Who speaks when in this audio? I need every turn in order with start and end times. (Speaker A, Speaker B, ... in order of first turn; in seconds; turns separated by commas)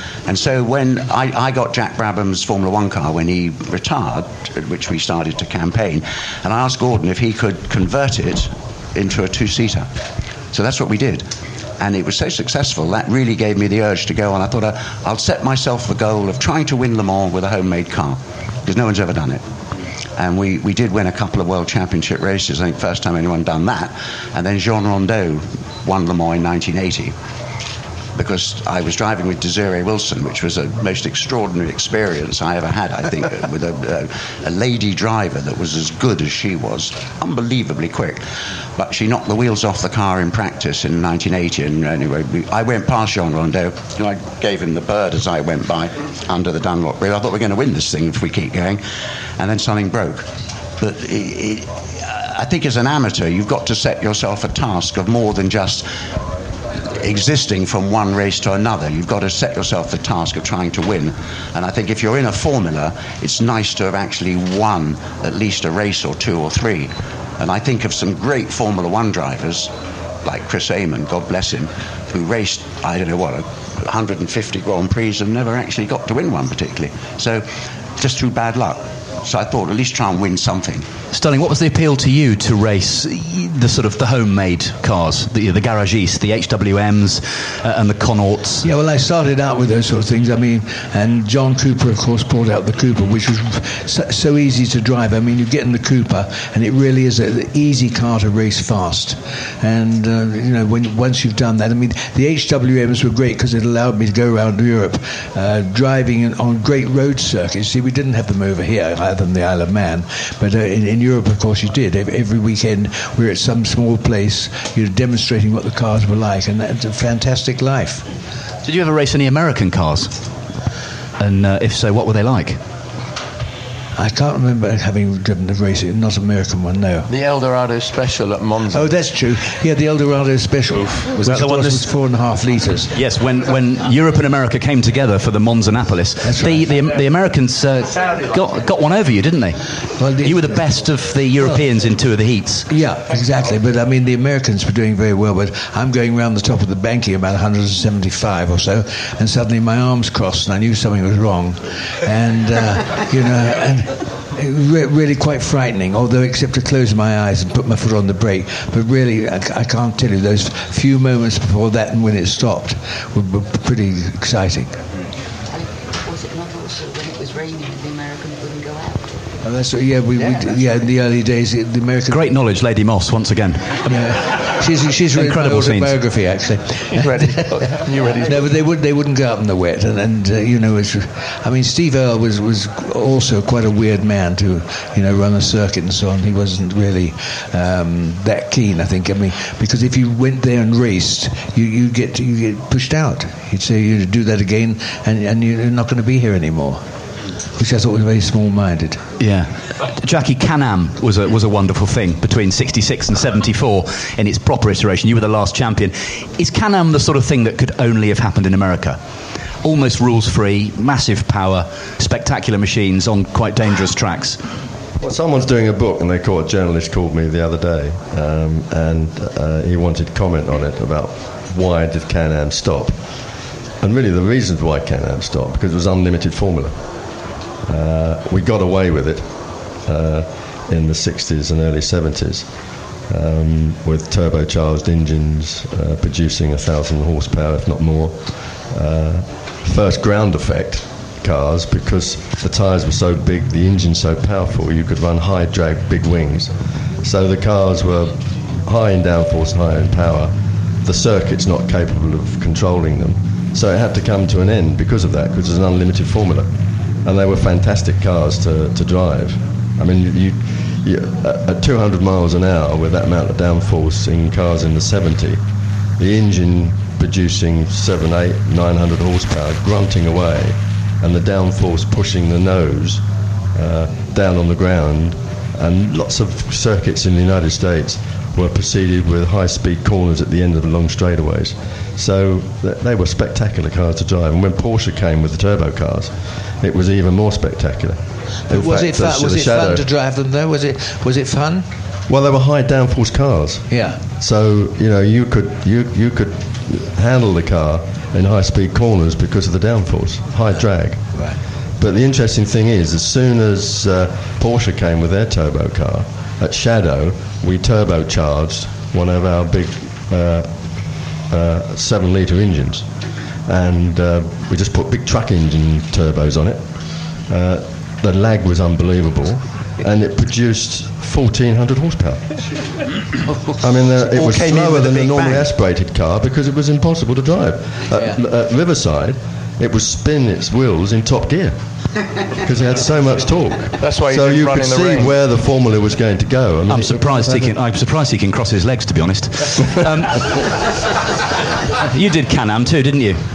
Speaker A: 0.3-9.9, Speaker A: 10.5-11.3, Speaker A: 11.8-19.4, Speaker A: 20.2-27.1, Speaker A: 28.2-38.2, Speaker A: 38.8-48.8, Speaker A: 49.4-50.3, Speaker A: 50.8-55.9, Speaker A: 57.0-69.7, Speaker A: 70.2-77.5, Speaker A: 78.0-80.9, Speaker B: 81.1-88.7, Speaker C: 88.6-118.1, Speaker B: 118.7-120.2, Speaker B: 121.2-122.6, Speaker C: 124.0-127.1, Speaker D: 127.1-129.0, Speaker C: 128.7-132.9, Speaker B: 131.2-131.7, Speaker B: 132.9-139.7, Speaker C: 136.2-136.7, Speaker D: 138.0-138.4, Speaker C: 140.0-140.8, Speaker B: 140.2-142.7, Speaker C: 142.7-164.8, Speaker E: 165.5-169.3, Speaker C: 169.4-172.3, Speaker E: 170.2-170.9, Speaker B: 172.1-174.0, Speaker C: 173.9-177.7, Speaker B: 175.1-176.0, Speaker D: 176.9-178.6, Speaker C: 178.2-196.8, Speaker C: 197.6-199.0, Speaker B: 199.2-209.0, Speaker B: 209.6-214.4, Speaker F: 215.0-222.9, Speaker F: 223.8-226.8, Speaker F: 227.7-229.3, Speaker F: 229.8-232.5, Speaker F: 233.1-246.5, Speaker F: 247.0-250.3, Speaker F: 250.8-256.5, Speaker F: 257.1-265.4, Speaker F: 266.0-273.0, Speaker F: 273.6-289.9, Speaker C: 288.5-291.7, Speaker F: 292.1-301.2, Speaker C: 293.7-294.0, Speaker F: 301.8-310.5, Speaker F: 311.3-312.9, Speaker F: 313.5-316.6, Speaker F: 317.3-322.2, Speaker F: 323.6-331.6, Speaker A: 324.0-325.5, Speaker F: 332.4-337.6, Speaker D: 333.8-335.2, Speaker B: 336.7-340.6, Speaker B: 341.7-343.2